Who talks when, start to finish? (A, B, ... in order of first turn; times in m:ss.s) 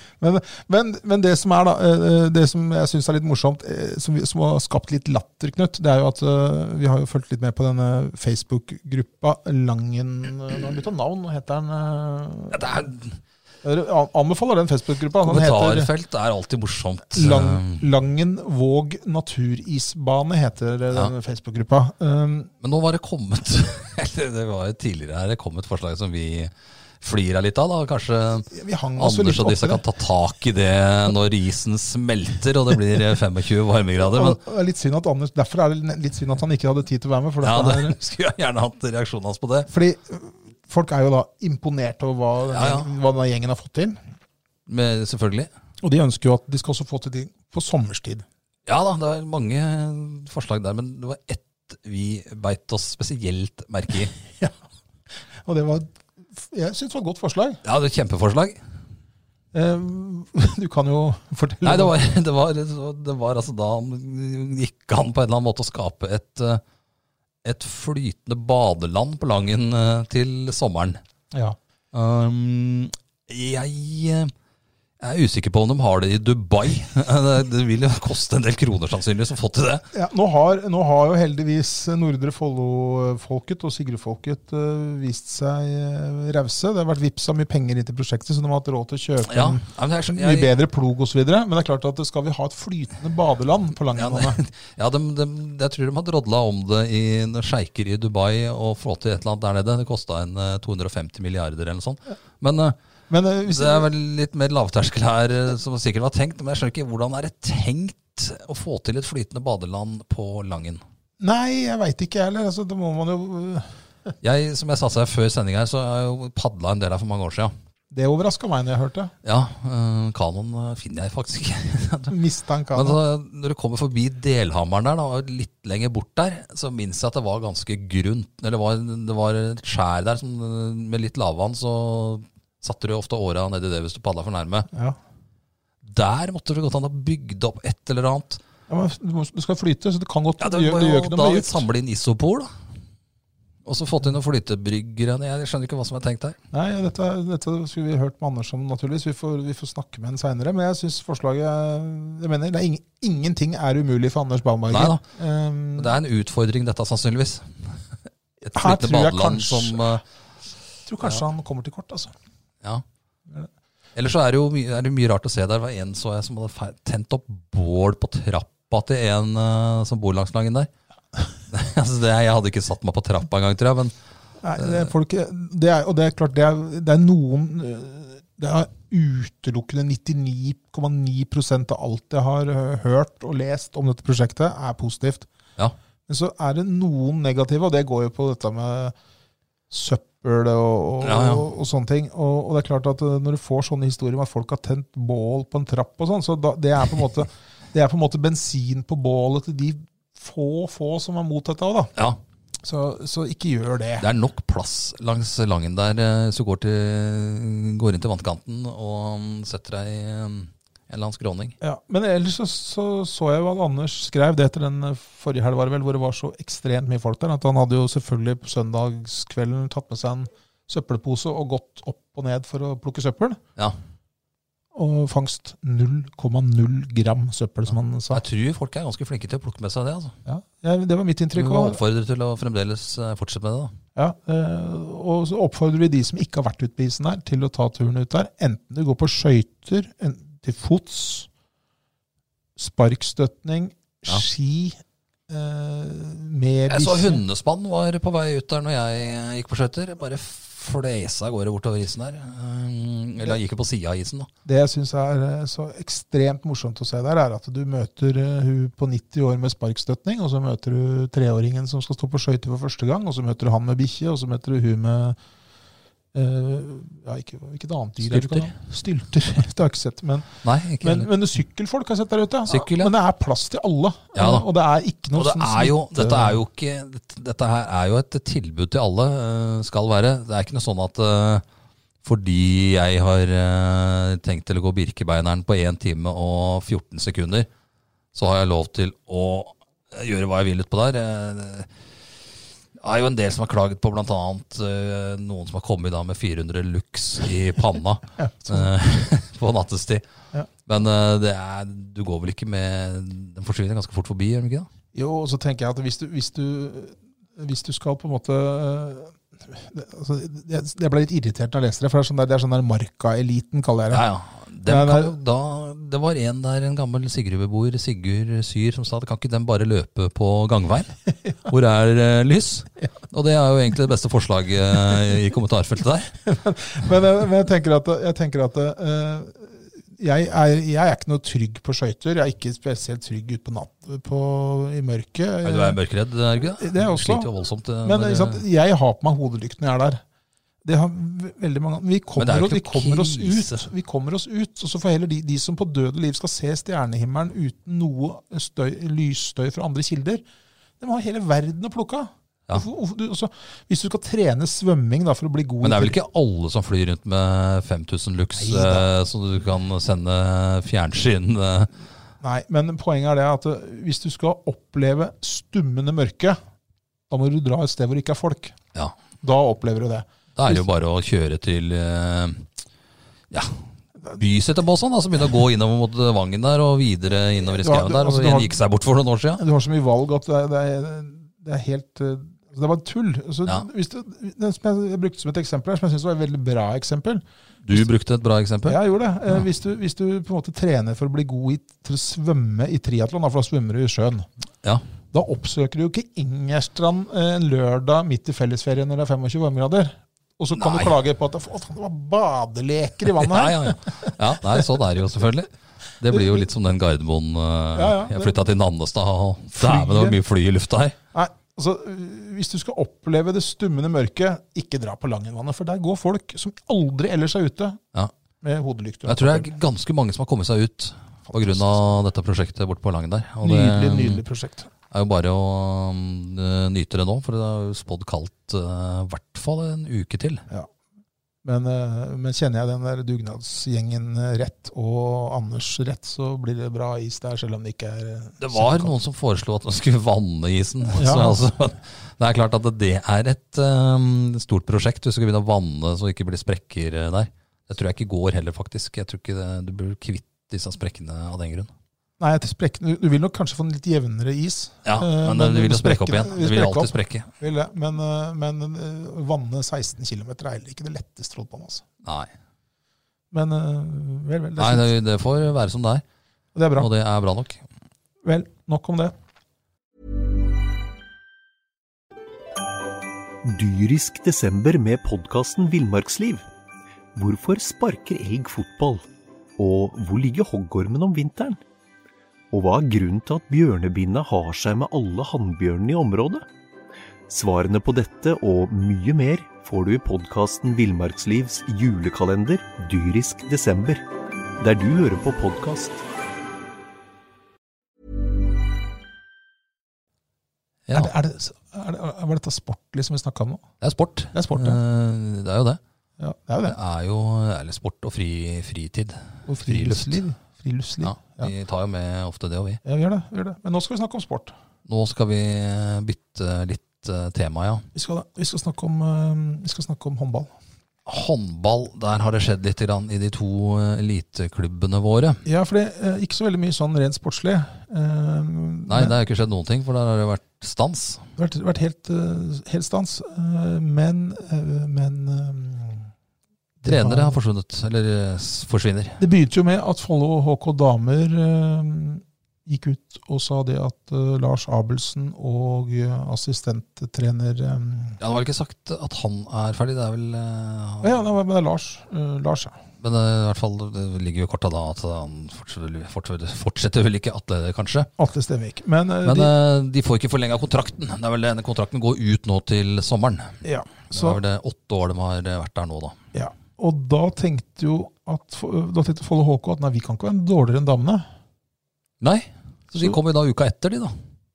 0:00.2-0:12.9 A
0:12.5-0:13.1 B
0:13.6-0:15.9 A
0:15.2-0:17.8 B
0:17.1-0:22.5 A
0:22.6-0:34.4 B
0:28.5-0:29.8 A
0:34.0-0:38.0 A
0:37.4-0:39.7 B
0:39.7-0:44.0 A
0:42.5-0:42.9 B
0:44.7-0:45.5 B
0:45.8-0:48.2 A
0:48.6-0:54.1 B
0:55.4-0:57.6 A
0:57.6-0:58.6 B
0:59.5-1:02.0 A
1:01.6-1:06.6 B
1:07.4-1:11.0 B
1:11.9-1:14.3 B
1:15.0-1:19.8 B
1:19.9-1:34.4 A
1:29.2-1:30.5 B
1:33.9-1:42.8 B
1:43.1-1:43.9 A
1:43.4-1:50.8 B
1:51.2-1:54.1 A
1:54.2-1:57.5 B
1:57.9-1:59.1 A
1:59.2-2:02.2 B
2:02.1-2:03.0 A
2:02.7-2:14.7 B
2:14.7-2:15.0 A
2:15.8-2:18.4 B
2:18.7-2:21.6 A
2:20.4-2:22.5 B
2:23.6-2:26.4 B
2:26.5-2:36.0 A
2:34.7-2:35.0 B
2:35.8-2:37.8 B
2:38.4-2:40.0 B
2:38.4-2:40.0 A
2:40.8-2:42.1 A
2:44.0-2:50.7 B
2:51.5-2:53.9 B
2:54.4-3:05.3 A
2:54.6-2:54.9 B
3:06.1-3:08.9 A
3:09.7-3:21.9 A
3:11.0-3:11.4 B
3:22.6-3:24.1 A
3:24.0-3:31.6 B
3:31.6-3:43.4 A
3:44.7-3:48.2 A
3:48.1-3:50.2 B
3:50.2-3:51.8 A
3:51.3-3:53.7 B
3:54.0-4:01.3 A
4:02.6-4:04.8 A
4:05.3-4:07.2 A
4:06.7-4:14.3 B
4:14.4-4:25.2 A
4:26.1-4:36.4 A
4:28.0-4:28.5 B
4:30.4-4:31.1 B
4:32.5-4:32.9 B
4:34.2-4:34.5 B
4:35.2-4:41.4 B
4:42.0-4:47.5 B
4:48.1-4:51.7 B
4:52.8-5:00.0 B
4:58.2-4:58.7 A
5:00.7-5:04.7 B
5:04.9-5:14.0 A
5:13.9-5:26.1 B
5:14.6-5:15.1 A
5:26.2-5:35.8 A
5:35.4-5:38.4 B
5:36.6-5:37.3 A
5:37.8-5:40.0 A
5:40.6-5:50.2 A
5:42.2-5:43.7 B
5:50.8-5:56.0 A
5:55.6-6:01.7 B
5:58.4-5:58.9 A
6:02.2-6:06.4 A
6:07.1-6:08.6 A
6:09.2-6:10.6 A
6:10.4-6:12.5 B
6:13.3-6:19.4 B
6:17.4-6:18.6 A
6:19.4-6:27.2 A
6:27.6-6:28.8 B
6:28.6-6:34.3 A
6:35.1-6:44.7 A
6:40.5-6:40.9 B
6:43.1-6:51.0 B
6:46.1-6:46.4 A
6:47.7-6:48.4 A
6:49.6-6:50.2 A
6:51.1-6:57.8 A
6:58.4-6:59.5 A
6:59.0-7:04.2 B
7:01.3-7:01.8 A
7:03.4-7:04.7 A
7:04.9-7:10.4 B
7:11.4-7:18.9 A
7:18.4-7:31.7 B
7:20.9-7:21.5 A
7:32.2-7:41.8 A
7:34.8-7:37.3 B
7:42.0-7:42.3 B
7:43.3-7:44.9 A
7:44.6-7:46.0 B
7:46.5-7:46.9 A
7:46.8-7:47.6 B
7:48.2-7:49.1 A
7:53.4-7:56.4 C
7:57.1-7:59.0 C
7:59.6-8:01.6 C
8:02.5-8:06.5 C
8:07.3-8:14.0 C
8:14.6-8:16.0 C
8:20.9-8:21.1 B
8:20.9-8:23.6 A
8:23.8-8:25.8 B
8:24.3-8:24.8 A
8:26.2-8:26.8 A
8:26.6-8:30.2 B
8:29.4-8:31.5 A
8:31.0-8:32.8 B
8:32.8-8:34.5 A
8:34.8-8:37.8 B
8:37.9-8:40.5 A
8:41.0-8:45.4 B
8:45.4-8:49.2 A
8:48.9-8:51.3 B
8:51.4-8:56.1 A
8:56.8-8:57.4 A
8:56.8-8:59.2 B
8:59.2-9:08.2 A
9:08.2-9:11.2 B
9:11.0-9:12.8 A
9:13.0-9:18.1 B
9:18.2-9:19.5 A
9:19.2-9:23.6 B
9:23.6-9:24.4 A
9:24.1-9:26.2 B
9:26.3-9:31.2 A
9:32.2-9:34.1 B